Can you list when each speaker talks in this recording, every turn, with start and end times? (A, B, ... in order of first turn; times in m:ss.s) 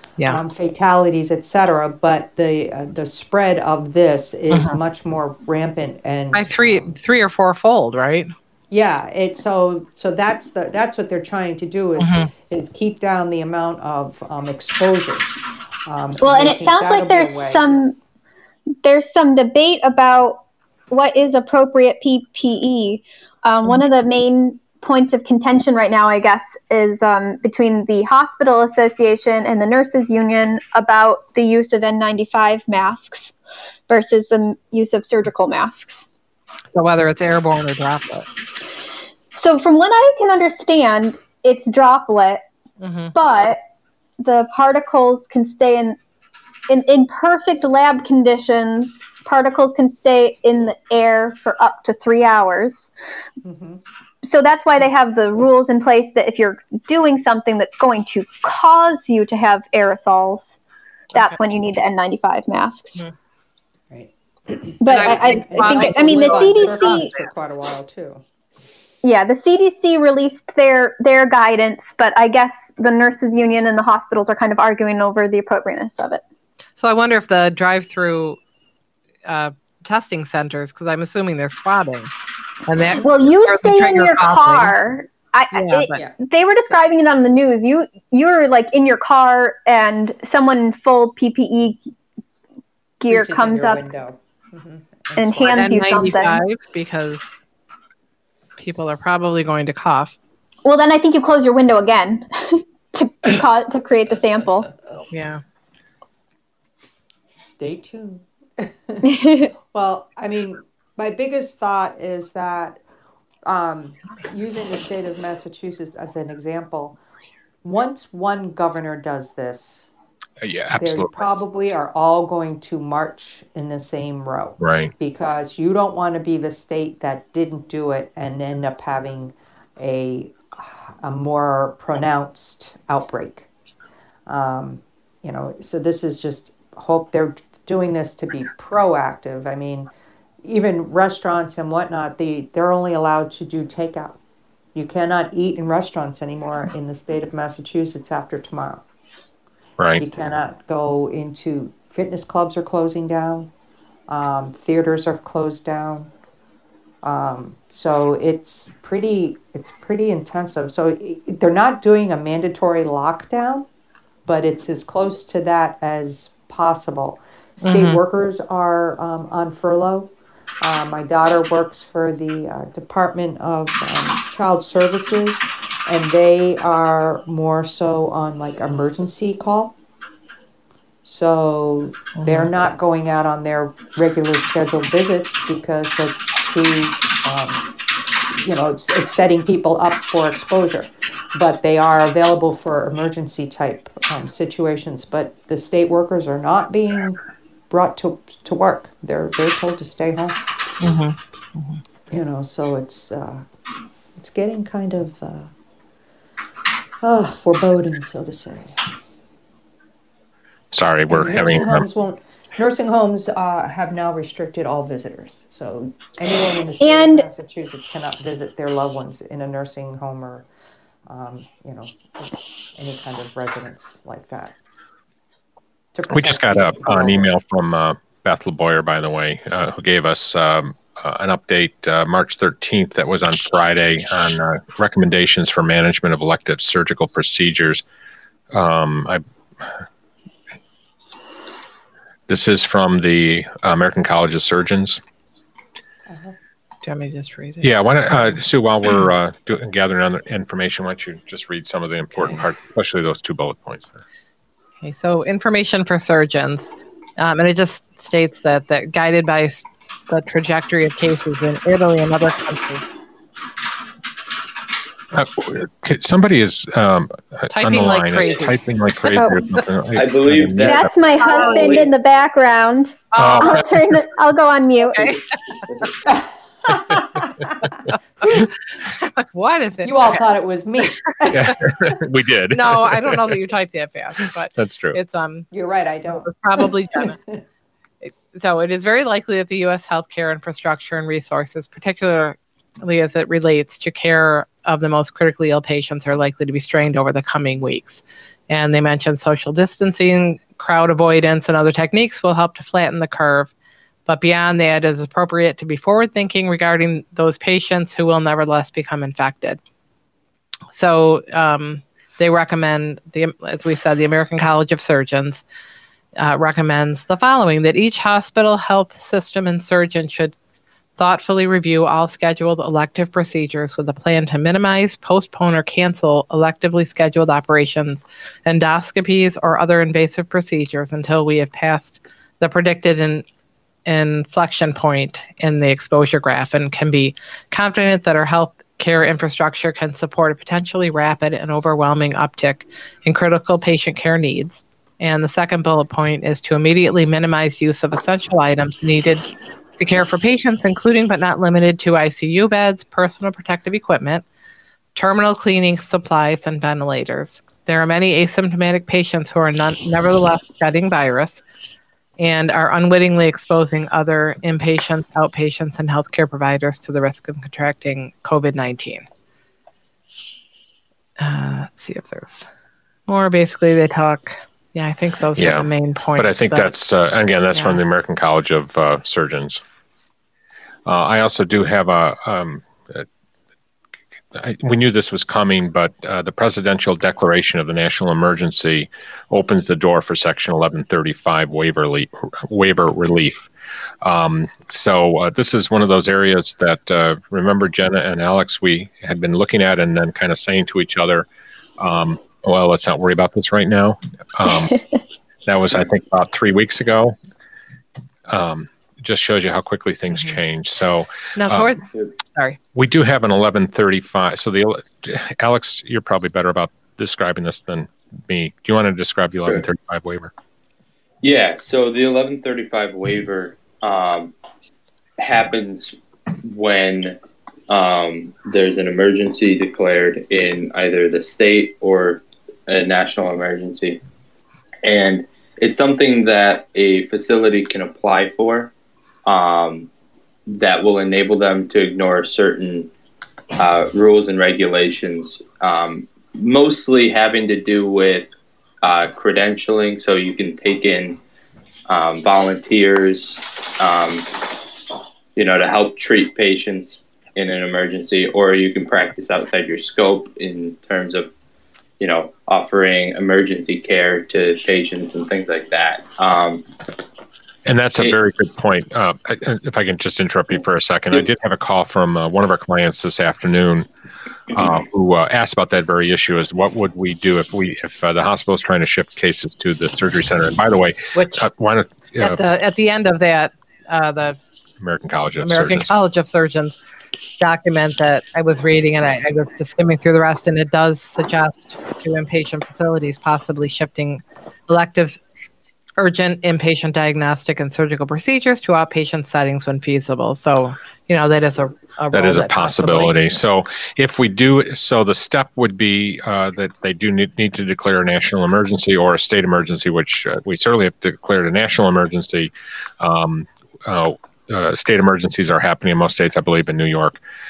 0:00.3-0:06.9 A
0:04.5-0:04.8 B
0:06.3-0:08.3 B
0:08.7-0:17.8 A
0:12.0-0:12.3 B
0:16.2-0:18.0 C
0:18.8-0:33.3 C
0:33.9-0:36.1 C
0:36.7-0:38.3 B
0:39.3-0:42.4 C
0:42.8-0:43.2 B
0:43.2-0:43.6 C
0:44.2-0:46.0 C
0:46.7-0:52.9 C
0:53.4-0:53.8 A
0:54.2-1:00.6 C
1:01.1-1:03.0 C
1:03.9-1:08.2 A
1:04.8-1:07.1 C
1:04.9-1:07.2 B
1:09.0-1:16.2 C
1:16.8-1:18.4 B
1:19.3-1:22.1 B
1:22.7-1:24.7 B
1:23.0-1:31.8 C
1:25.5-1:26.0 B
1:33.0-1:33.8 C
1:33.1-1:35.7 A
1:35.2-1:36.4 C
1:35.5-1:37.2 B
1:38.6-1:40.2 B
1:40.6-1:44.7 C
1:45.1-1:45.4 B
1:47.3-1:52.8 A
1:49.1-1:49.5 C
1:53.5-1:57.0 A
1:57.6-1:59.9 A
2:00.4-2:01.4 D
2:00.8-2:13.5 A
2:04.6-2:04.9 D
2:14.3-2:19.9 A
2:20.4-2:24.2 A
2:24.8-2:28.8 A
2:29.8-2:30.0 D
2:30.0-2:33.5 A
2:34.1-2:36.1 A
2:37.0-2:43.6 A
2:44.3-2:50.1 A
2:47.6-2:48.0 B
2:50.6-2:59.7 A
3:01.0-3:07.7 A
3:02.2-3:02.5 B
3:08.3-3:17.2 A
3:17.7-3:20.4 A
3:20.8-3:21.8 B
3:22.1-3:23.5 A
3:24.2-3:25.5 A
3:27.0-3:28.8 A
3:30.7-3:31.9 D
3:31.1-3:40.5 A
3:36.8-3:37.3 C
3:41.1-3:44.6 A
3:45.9-3:47.3 A
3:46.1-3:57.8 D
3:58.5-3:59.8 D
4:02.3-4:05.0 D
4:06.1-4:06.4 A
4:06.8-4:07.7 B
4:07.6-4:14.0 D
4:14.8-4:22.8 B
4:25.1-4:30.9 D
4:27.5-4:28.6 B
4:29.1-4:29.4 C
4:30.0-4:31.9 E
4:30.6-4:35.2 C
4:31.2-4:31.9 B
4:33.2-4:33.8 B
4:33.2-4:33.9 D
4:35.1-4:35.9 E
4:36.7-4:37.6 A
4:38.3-4:40.2 B
4:39.8-4:42.0 A
4:41.3-4:43.4 D
4:42.5-4:45.5 B
4:44.6-4:45.0 D
4:45.5-4:46.4 A
4:46.1-4:47.2 B
4:48.0-5:03.5 B
5:04.1-5:09.6 B
5:10.7-5:15.4 B
5:16.2-5:20.4 B
5:21.0-5:33.2 B
5:33.9-5:54.2 B
5:55.0-6:01.4 B
6:02.2-6:09.1 B
6:11.2-6:12.5 B
6:13.1-6:16.7 B
6:15.4-6:19.6 D
6:17.5-6:17.8 B
6:20.9-6:23.1 D
6:24.3-6:33.5 D
6:34.0-6:41.3 D
6:41.8-6:44.8 D
6:45.5-6:47.2 D
6:48.3-6:51.7 D
6:51.4-6:52.6 B
6:52.7-7:00.3 D
7:01.2-7:04.3 E
7:05.2-7:07.2 E
7:07.7-7:14.0 E
7:14.8-7:18.7 E
7:19.3-7:19.9 E
7:20.5-7:22.9 E
7:23.6-7:28.3 E
7:28.8-7:31.2 E
7:31.9-7:34.3 E
7:35.4-7:41.3 E
7:42.0-7:46.6 E
7:47.7-7:53.9 D
7:54.5-8:02.4 D
8:01.2-8:01.4 B
8:02.2-8:04.4 B
8:04.8-8:05.9 D
8:05.4-8:06.8 B
8:07.4-8:15.2 B
8:16.0-8:23.2 B
8:22.1-8:37.2 D